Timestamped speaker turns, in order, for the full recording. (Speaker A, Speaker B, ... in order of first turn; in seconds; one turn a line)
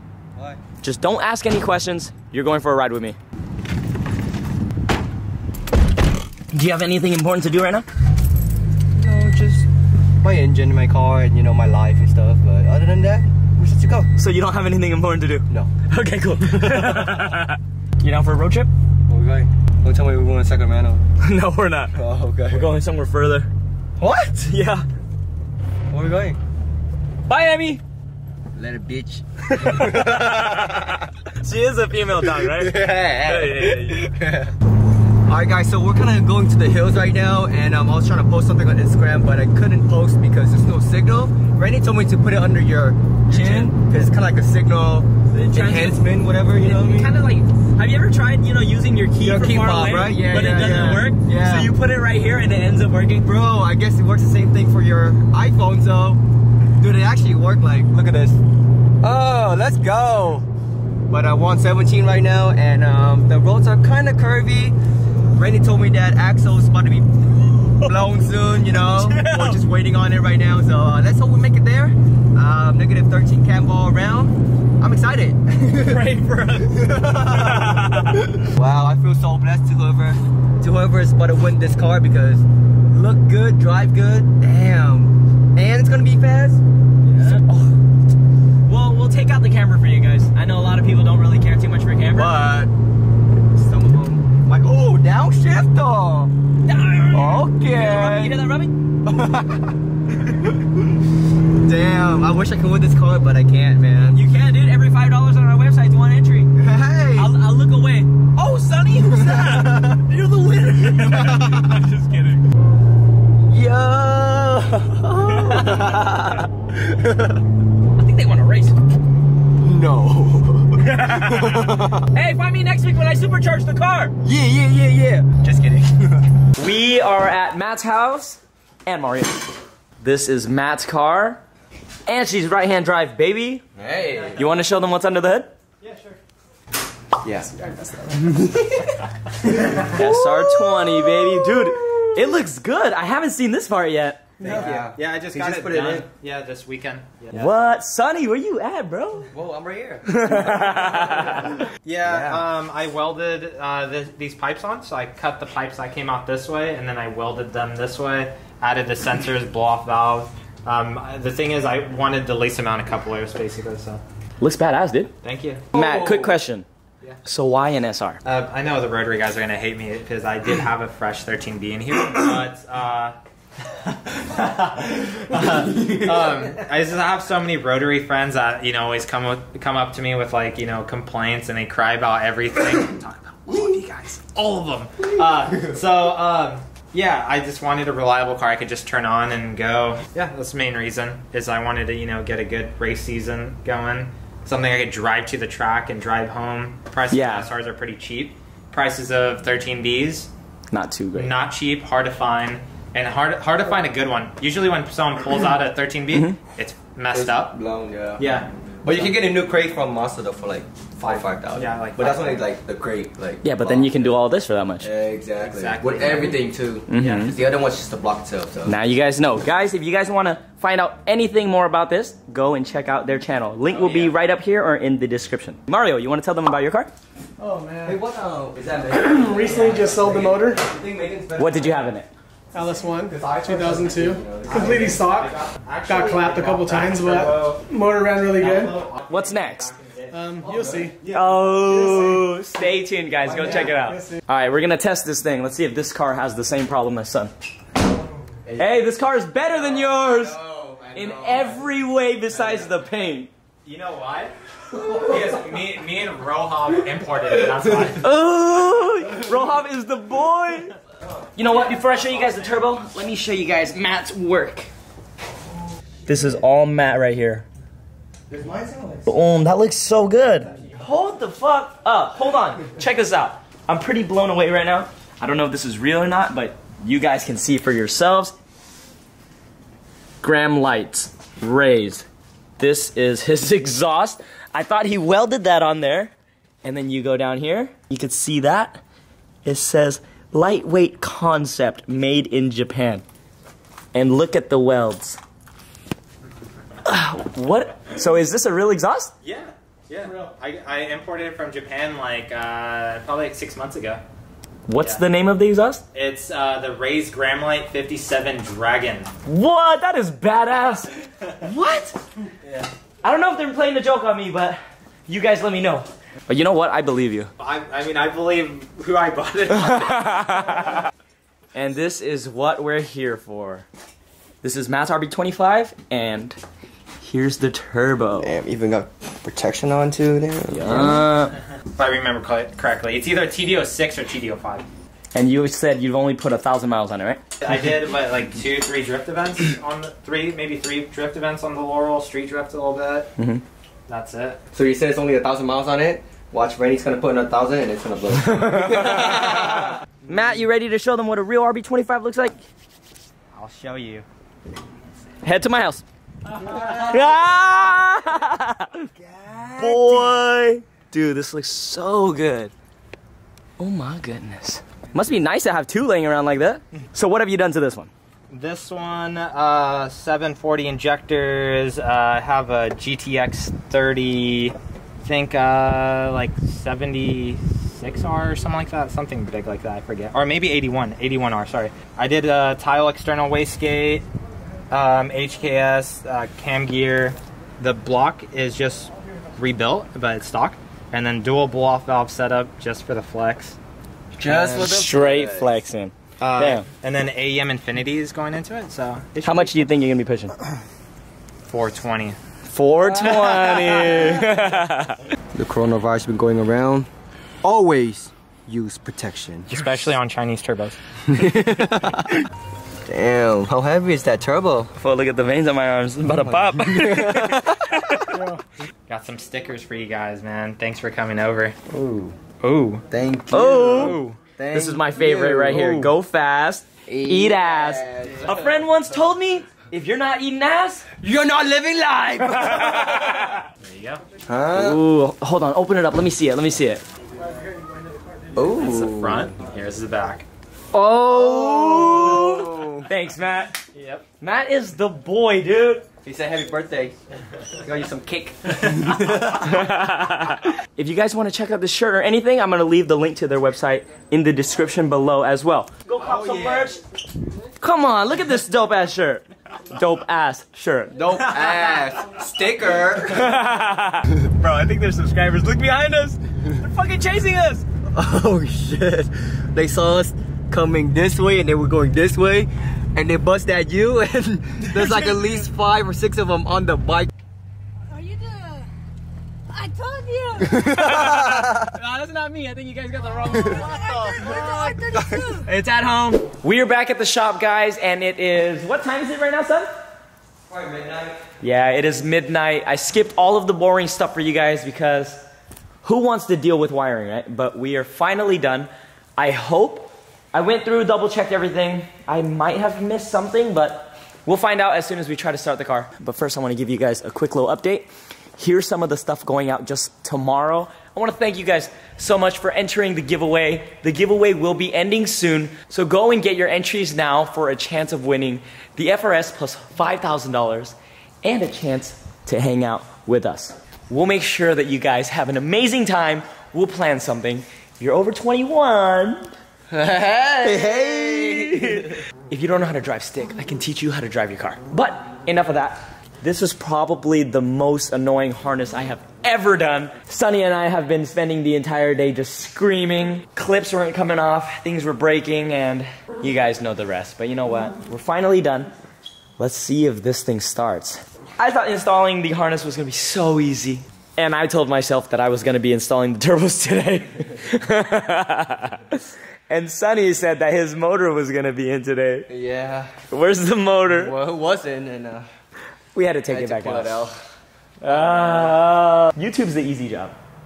Speaker A: 0.4-0.6
Speaker B: 0.8-3.2
Speaker B: 6.5-7.9
Speaker A: 8.9-9.7
Speaker A: 10.2-14.1
Speaker B: 14.2-18.7
Speaker A: 16.5-17.3
Speaker A: 19.1-21.0
Speaker B: 21.2-21.9
Speaker A: 21.9-22.7
Speaker B: 22.5-23.5
Speaker A: 24.0-24.5
Speaker B: 24.5-24.9
Speaker A: 25.9-26.4
Speaker B: 27.3-27.8
Speaker A: 28.6-31.0
Speaker B: 29.5-34.0
Speaker A: 32.2-34.5
Speaker A: 35.3-47.1
Speaker B: 43.3-43.7
Speaker B: 45.3-53.3
Speaker A: 49.2-51.7
Speaker A: 53.2-56.2
Speaker A: 56.8-58.4
Speaker A: 59.0-60.5
Speaker A: 61.1-64.8
Speaker A: 65.3-76.0
Speaker B: 67.7-67.9
Speaker B: 68.9-69.6
Speaker B: 75.7-78.4
Speaker A: 76.6-77.8
Speaker A: 78.5-86.6
Speaker B: 87.2-87.8
Speaker B: 88.7-92.4
Speaker A: 92.2-92.7
Speaker A: 93.5-96.3
Speaker B: 96.6-98.7
Speaker A: 97.1-98.4
Speaker A: 99.0-99.8
Speaker A: 101.6-104.2
Speaker B: 104.1-106.5
Speaker A: 106.6-107.3
Speaker B: 107.1-112.4
Speaker A: 109.0-110.0
Speaker A: 111.1-111.7
Speaker A: 113.5-117.4
Speaker B: 115.1-116.4
Speaker B: 118.0-118.8
Speaker A: 119.6-122.1
Speaker B: 120.8-124.2
Speaker A: 124.2-126.3
Speaker B: 126.6-131.4
Speaker B: 132.1-133.6
Speaker A: 133.8-134.4
Speaker B: 134.3-135.5
Speaker C: 135.8-136.2
Speaker A: 137.2-137.5
Speaker D: 137.5-138.4
Speaker A: 138.1-139.0
Speaker B: 139.8-144.3
Speaker A: 140.0-141.7
Speaker A: 144.4-146.1
Speaker D: 144.4-144.8
Speaker C: 144.5-147.5
Speaker B: 147.3-149.3
Speaker A: 149.3-151.4
Speaker B: 150.1-151.6
Speaker C: 151.8-164.0
Speaker A: 152.0-152.5
Speaker B: 164.4-165.1
Speaker C: 165.2-165.7
Speaker B: 165.7-166.7
Speaker A: 165.7-166.3
Speaker B: 167.2-168.2
Speaker C: 168.2-173.2
Speaker C: 174.3-200.3
Speaker A: 175.7-176.3
Speaker B: 197.1-197.5
Speaker B: 200.7-201.3
Speaker C: 201.2-207.5
Speaker B: 206.1-206.4
Speaker A: 207.1-208.2
Speaker C: 208.2-209.1
Speaker A: 208.8-214.1
Speaker C: 211.0-212.5
Speaker B: 213.4-214.9
Speaker A: 214.8-218.8
Speaker C: 215.4-217.2
Speaker B: 216.9-217.4
Speaker B: 218.7-226.9
Speaker A: 223.7-224.1
Speaker D: 227.4-228.0
Speaker A: 227.8-231.9
Speaker D: 228.9-230.6
Speaker B: 231.4-232.1
Speaker D: 232.5-238.7
Speaker A: 232.8-235.1
Speaker C: 234.6-237.7
Speaker C: 238.2-240.2
Speaker B: 239.1-239.7
Speaker D: 240.1-241.0
Speaker A: 240.4-241.9
Speaker B: 241.1-247.3
Speaker A: 243.4-243.6
Speaker A: 248.4-248.8
Speaker B: 248.6-250.4
Speaker A: 249.4-251.7
Speaker B: 250.9-253.3
Speaker C: 253.7-254.3
Speaker A: 254.7-255.1
Speaker C: 254.9-258.1
Speaker B: 258.0-260.8
Speaker B: 261.4-264.7
Speaker C: 261.7-262.0
Speaker B: 266.1-267.5
Speaker A: 268.3-269.1
Speaker B: 269.1-278.4
Speaker B: 280.2-282.1
Speaker B: 282.6-286.1
Speaker B: 286.6-288.8
Speaker B: 289.4-293.0
Speaker B: 293.9-295.2
Speaker B: 296.8-299.1
Speaker C: 299.2-304.0
Speaker B: 304.7-305.8
Speaker C: 304.8-305.0
Speaker C: 305.9-309.1
Speaker B: 309.3-312.0
Speaker B: 313.0-317.3
Speaker C: 317.4-320.3
Speaker B: 319.5-320.8
Speaker B: 321.5-323.7
Speaker B: 324.4-326.4
Speaker B: 327.0-328.3
Speaker A: 328.2-331.0
Speaker B: 330.5-331.4
Speaker C: 331.8-334.7
Speaker B: 335.1-337.2
Speaker C: 337.4-343.1
Speaker B: 343.2-343.4
Speaker C: 343.9-344.4
Speaker A: 344.5-349.7
Speaker B: 348.3-352.4
Speaker C: 353.3-354.1
Speaker B: 355.2-355.9
Speaker B: 356.4-358.9
Speaker A: 359.0-359.9
Speaker B: 359.6-362.5
Speaker B: 363.6-367.9
Speaker C: 368.3-384.1
Speaker C: 384.7-393.6
Speaker A: 394.2-395.5
Speaker C: 394.2-394.7
Speaker B: 394.5-396.7
Speaker C: 396.2-399.5
Speaker B: 399.2-400.4
Speaker C: 401.5-402.2
Speaker B: 402.5-405.0
Speaker A: 402.8-404.3
Speaker A: 405.3-406.9
Speaker A: 407.4-409.5
Speaker C: 409.5-410.8
Speaker A: 411.1-412.2
Speaker A: 412.9-414.7
Speaker B: 414.8-418.2
Speaker A: 416.5-417.5
Speaker D: 418.1-418.4
Speaker C: 418.9-421.6
Speaker C: 422.4-424.2
Speaker A: 422.9-425.9
Speaker B: 423.3-424.0
Speaker B: 424.5-430.9
Speaker C: 425.5-425.8
Speaker A: 426.9-428.5
Speaker A: 431.0-433.0
Speaker B: 432.3-433.4
Speaker C: 433.6-434.0
Speaker A: 434.3-434.8
Speaker B: 434.5-436.8
Speaker A: 438.4-439.3
Speaker C: 438.6-440.2
Speaker B: 440.7-443.6
Speaker A: 441.1-442.9
Speaker C: 443.7-444.1
Speaker B: 444.2-445.9
Speaker A: 446.0-447.0
Speaker A: 447.5-449.5
Speaker B: 449.3-456.8
Speaker A: 456.0-456.8
Speaker B: 457.6-461.2
Speaker A: 460.9-463.3
Speaker B: 463.1-467.7
Speaker A: 467.9-477.1
Speaker E: 477.9-478.7
Speaker E: 479.5-480.7
Speaker A: 480.4-481.7
Speaker C: 481.9-486.2
Speaker B: 481.9-483.6
Speaker A: 483.3-485.4
Speaker B: 486.4-489.7
Speaker A: 490.5-491.2
Speaker B: 491.4-495.2
Speaker B: 495.8-529.3
Speaker A: 529.7-531.9
Speaker B: 530.4-548.7
Speaker B: 549.4-562.3
Speaker A: 562.3-563.0
Speaker B: 563.1-564.1
Speaker A: 563.9-565.3
Speaker B: 565.9-567.0
Speaker A: 566.3-567.2
Speaker B: 567.8-570.2
Speaker A: 567.8-568.6